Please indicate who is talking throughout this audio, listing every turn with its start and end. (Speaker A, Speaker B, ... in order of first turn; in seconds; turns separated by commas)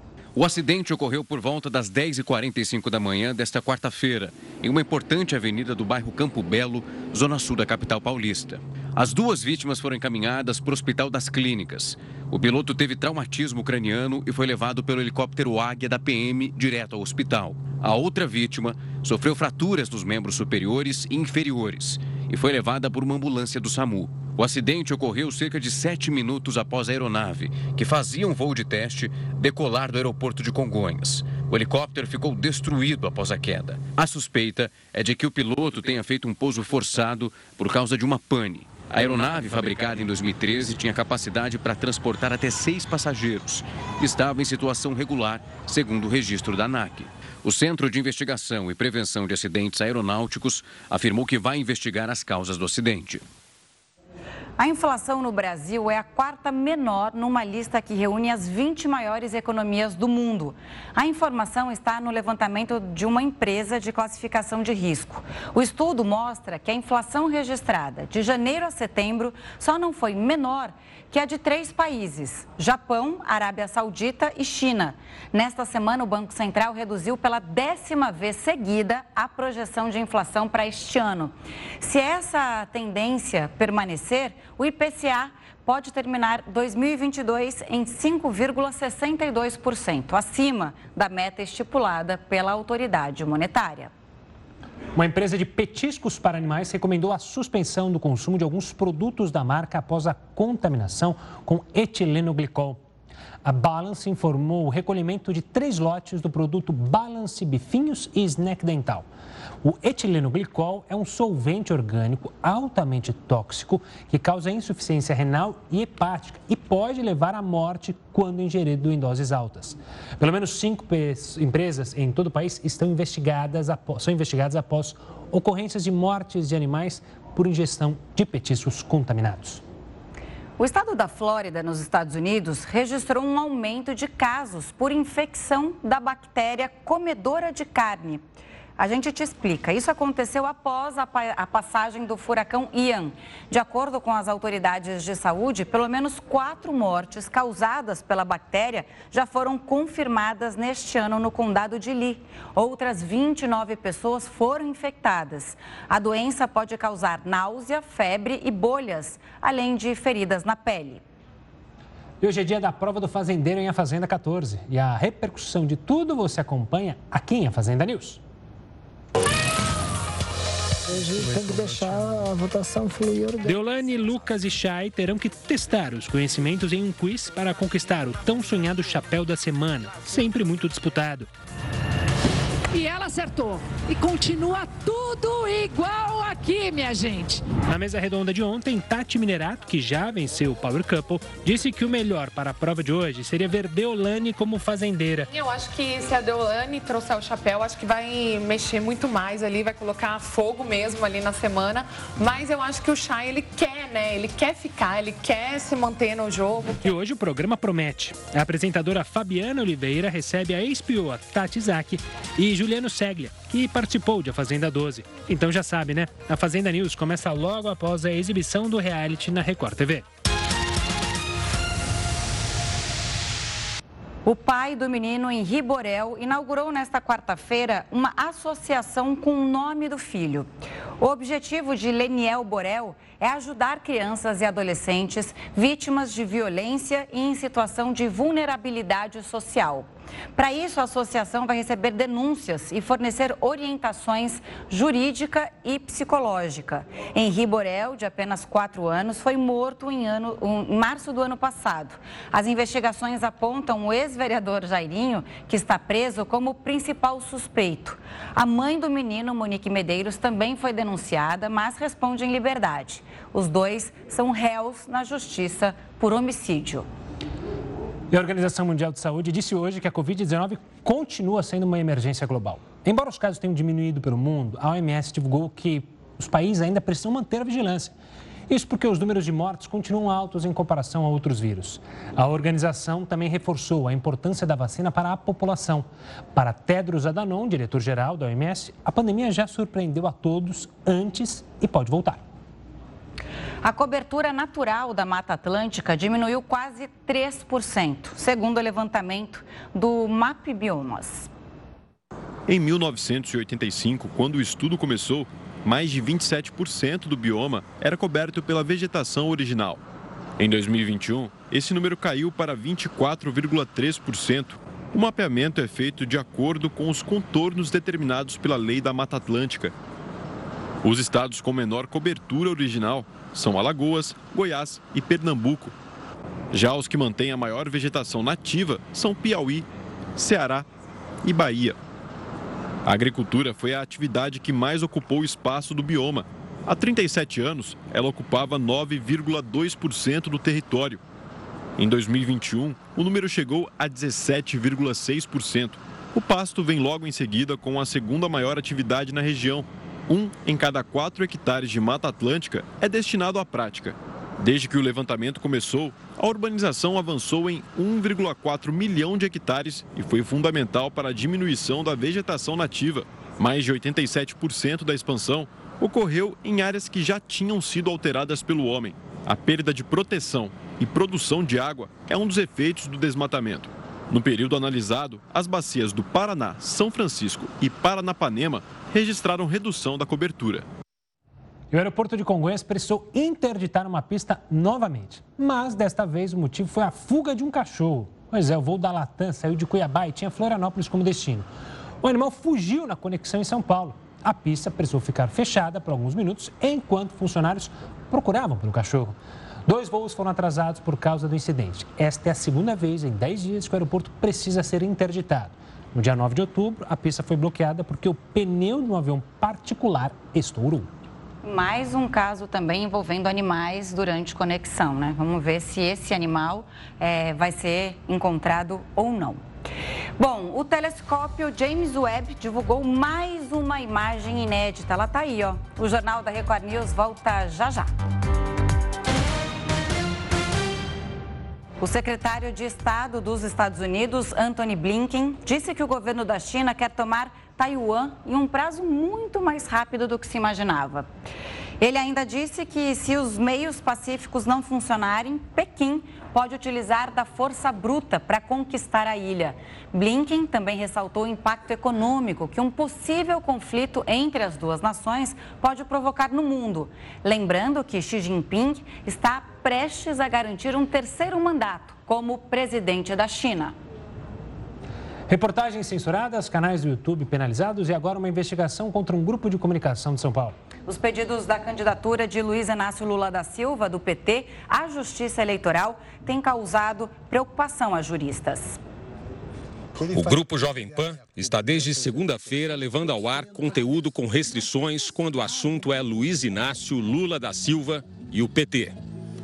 Speaker A: 0.3-53.2, Speaker B: 54.6-93.9, Speaker C: 94.9-102.8, Speaker C: 103.4-109.1, Speaker C: 109.6-129.6, Speaker B: 130.6-138.2, Speaker B: 138.8-161.0, Speaker C: 162.2-168.2, Speaker D: 170.9-173.6, Speaker C: 173.4-181.3, Speaker E: 182.7-187.4, Speaker C: 187.7-195.3, Speaker F: 195.3-206.9, Speaker C: 206.8-220.1, Speaker B: 224.2-230.5, Speaker B: 231.0-266.9, Speaker C: 268.1-277.9, Speaker C: 278.5-292.2, Speaker B: 293.6-301.3, Speaker G: 302.5-309.8, Speaker G: 310.4-319.7, Speaker G: 320.8-325.7, Speaker G: 326.5-329.6, Speaker G: 330.2-330.7, Speaker G: 331.2-331.8, Speaker G: 332.8-341.0, Speaker G: 341.8-380.6, Speaker C: 381.7-391.5, Speaker C: 392.0-410.9, Speaker B: 411.4-419.4, Speaker B: 420.2-427.9, Speaker B: 431.8-441.1, Speaker B: 441.8-463.7, Speaker C: 465.3-470.6, Speaker B: 470.9-478.8, Speaker H: 480.1-488.9